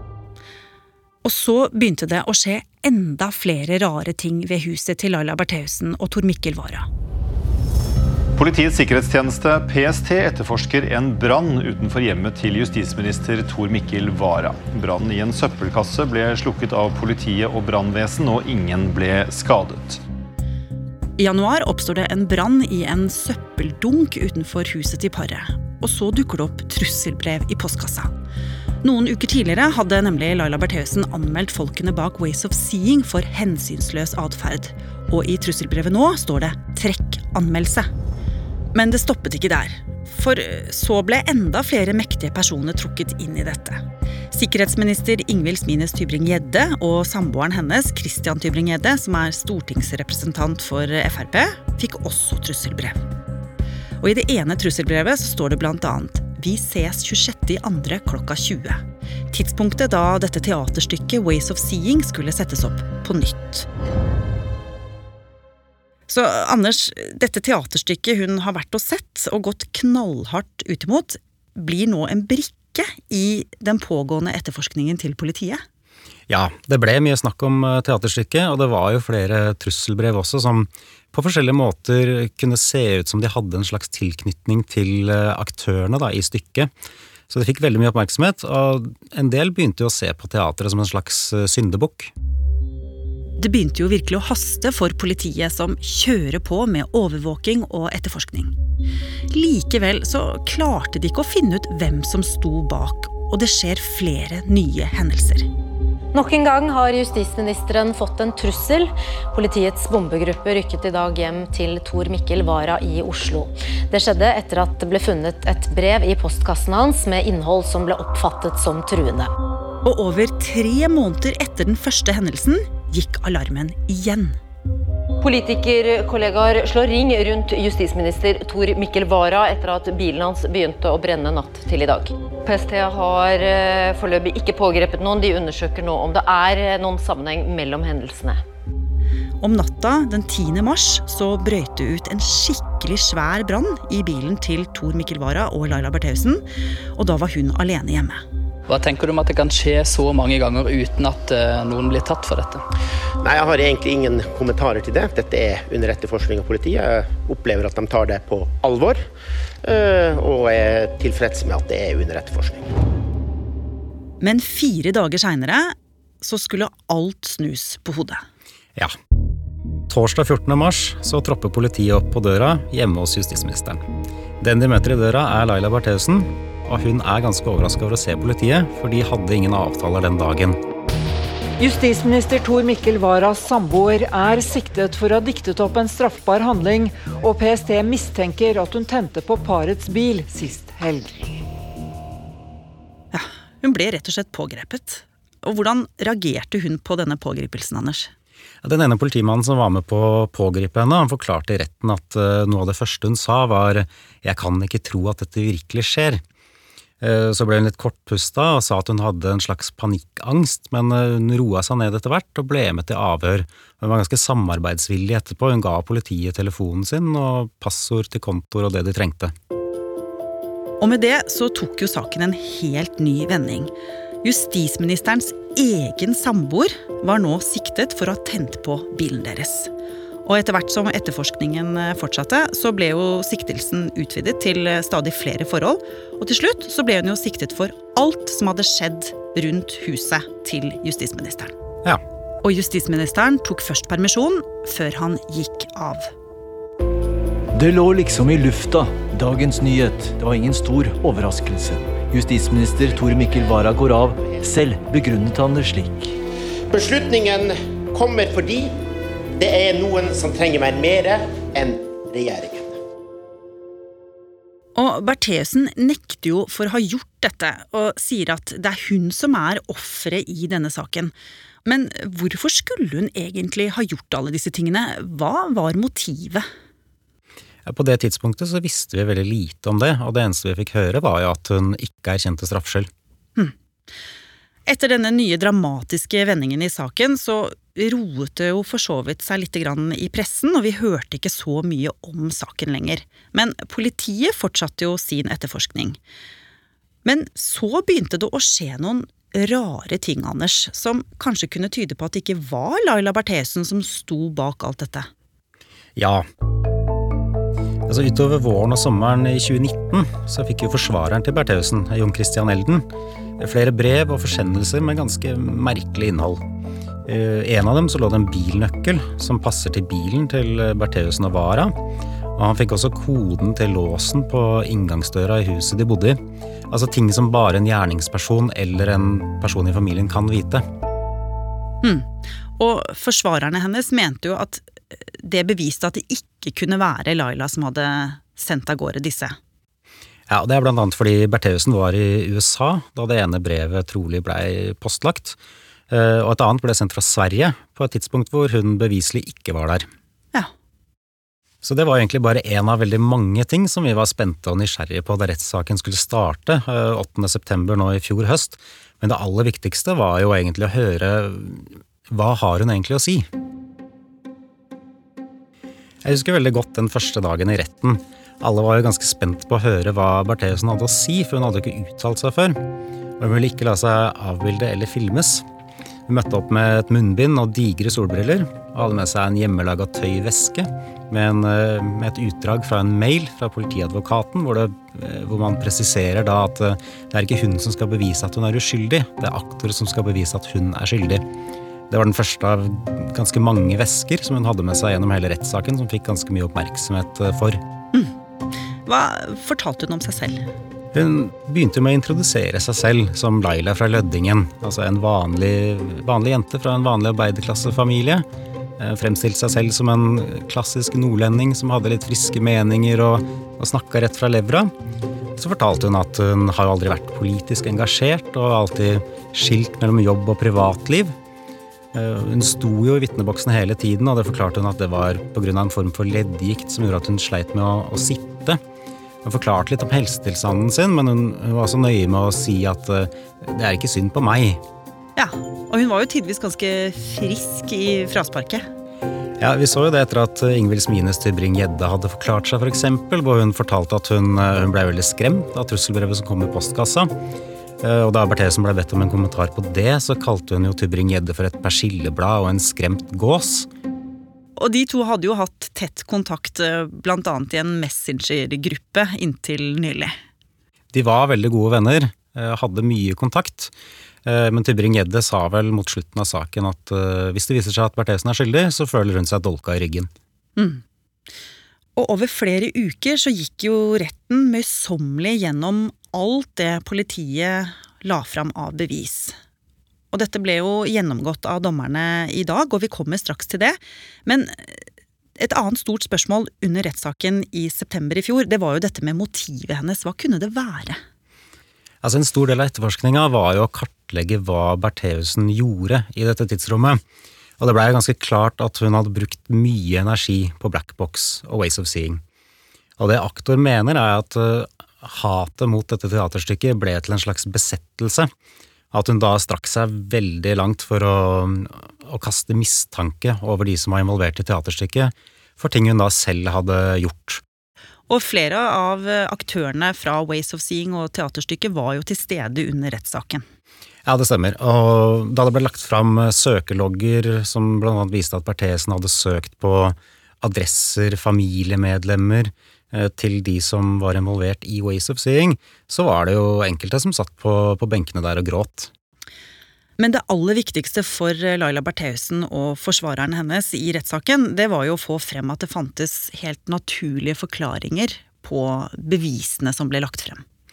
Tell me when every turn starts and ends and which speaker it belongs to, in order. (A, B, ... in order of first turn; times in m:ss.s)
0:01.2-0:06.9 A
0:08.4-0:20.0 B
0:21.2-0:28.1 A
0:28.8-0:37.9 A
0:38.7-0:53.0 A
0:54.0-1:03.7 A
1:06.1-1:15.6 A
1:16.3-1:26.7 C
1:27.3-1:32.1 C
1:33.4-1:38.5 A
1:39.3-1:45.5 A
1:46.1-1:59.3 D
1:59.8-2:04.4 A
2:05.2-2:18.4 D
2:19.4-2:26.4 A
2:26.9-2:28.2 A
2:28.7-2:32.6 E
2:33.2-2:39.1 F
2:39.6-2:42.7 F
2:44.2-2:48.2 A
2:49.9-2:53.8 C
2:54.4-3:00.6 C
3:01.6-3:11.4 G
3:13.1-3:18.1 A
3:18.6-3:26.2 C
3:27.0-3:39.3 C
3:40.8-3:43.7 A
3:44.2-3:49.7 A
3:50.2-4:01.5 A
4:02.4-4:06.1 A
4:07.5-4:16.2 H
4:16.7-4:18.7 F
4:19.4-4:22.8 F
4:24.8-4:31.1 A
4:31.6-4:36.4 A
4:37.7-4:42.9 C
4:44.7-4:56.0 A
4:57.0-5:05.1 A
5:06.0-5:06.2 C
5:07.9-5:12.8 C
5:13.4-5:16.4 C
5:17.1-5:21.8 C
5:22.3-5:30.6 C
5:31.8-5:39.4 A
5:40.3-5:45.4 C
5:45.9-5:49.9 C
5:51.6-6:03.3 C
6:06.0-6:12.6 C
6:13.2-6:15.4 C
6:16.1-6:31.2 C
6:31.9-6:37.6 C
6:38.8-6:40.5 A
6:40.9-6:48.2 C
6:48.8-6:54.7 C
6:55.4-7:01.2 C
7:01.9-7:08.6 C
7:09.2-7:14.6 C
7:15.2-7:18.7 A
7:19.4-7:27.1 C
7:27.8-7:33.7 C
7:34.6-7:40.1 A
7:40.9-7:43.7 C
7:44.2-7:50.1 C
7:50.6-7:50.8 A
7:52.0-7:59.3 A
8:00.1-8:04.8 A
8:05.4-8:11.0 A
8:12.0-8:17.0 C
8:17.6-8:22.2 C
8:23.0-8:28.3 C
8:28.9-8:37.4 C
8:38.1-8:43.4 A
8:44.1-8:58.9 C
9:00.0-9:10.4 A